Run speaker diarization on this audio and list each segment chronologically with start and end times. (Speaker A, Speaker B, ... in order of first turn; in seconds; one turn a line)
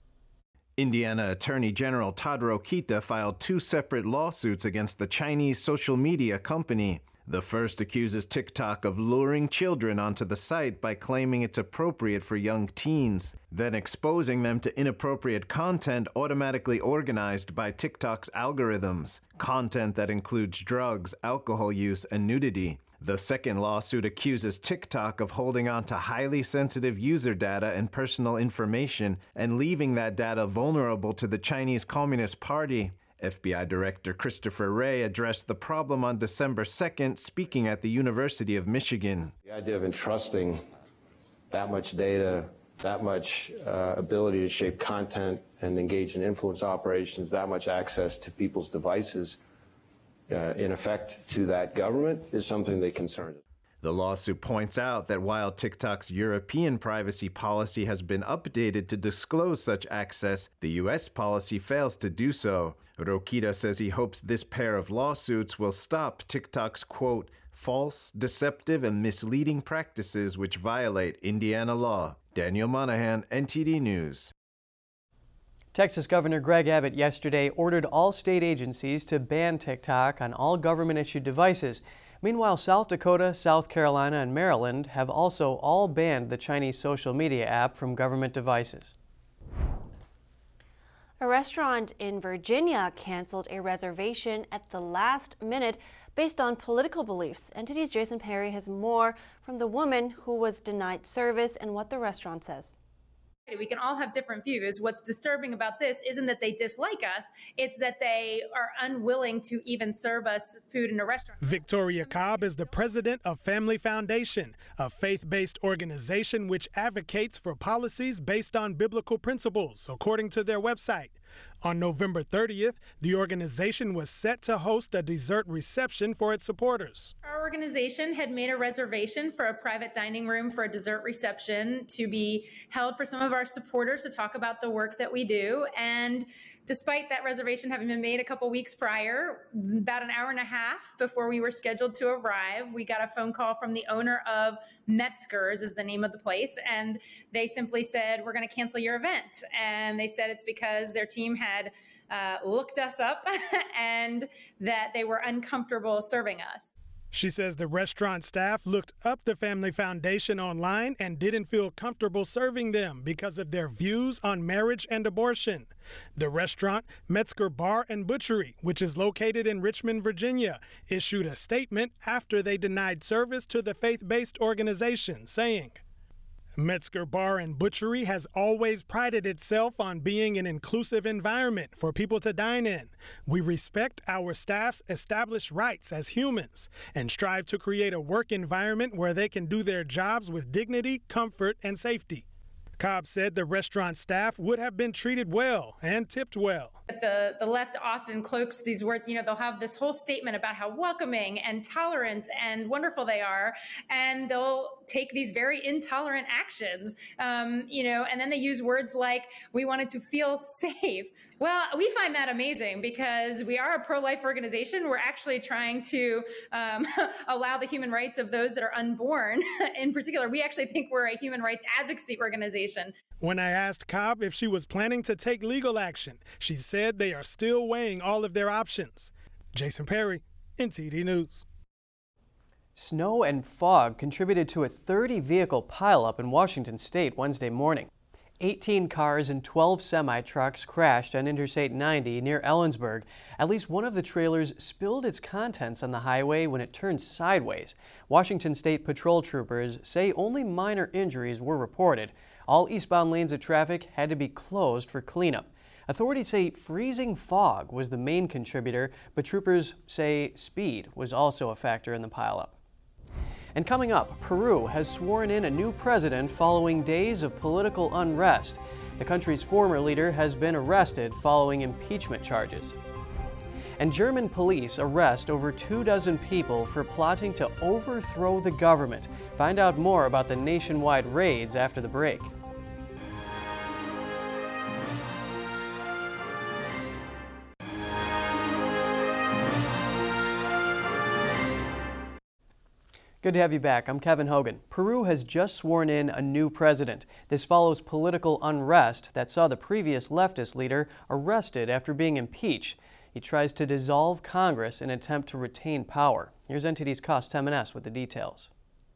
Speaker A: 0.8-39.3
Speaker B: 39.4-40.6
Speaker B: 41.5-49.4
Speaker B: 50.3-53.4
Speaker A: 53.8-74.3
Speaker C: 75.7-88.9
Speaker D: 91.2-102.8
Speaker E: 103.5-111.7
Speaker F: 111.4-127.1
Speaker E: 127.2-156.7
Speaker F: 157.1-175.8
Speaker F: 176.6-192.2
Speaker F: 192.8-196.7
Speaker E: 196.9-222.9
Speaker F: 223.2-231.4
Speaker C: 232.8-237.9
Speaker C: 238.4-262.6
Speaker C: 263.5-272.8
Speaker C: 273.8-282.3
Speaker C: 293.2-308.5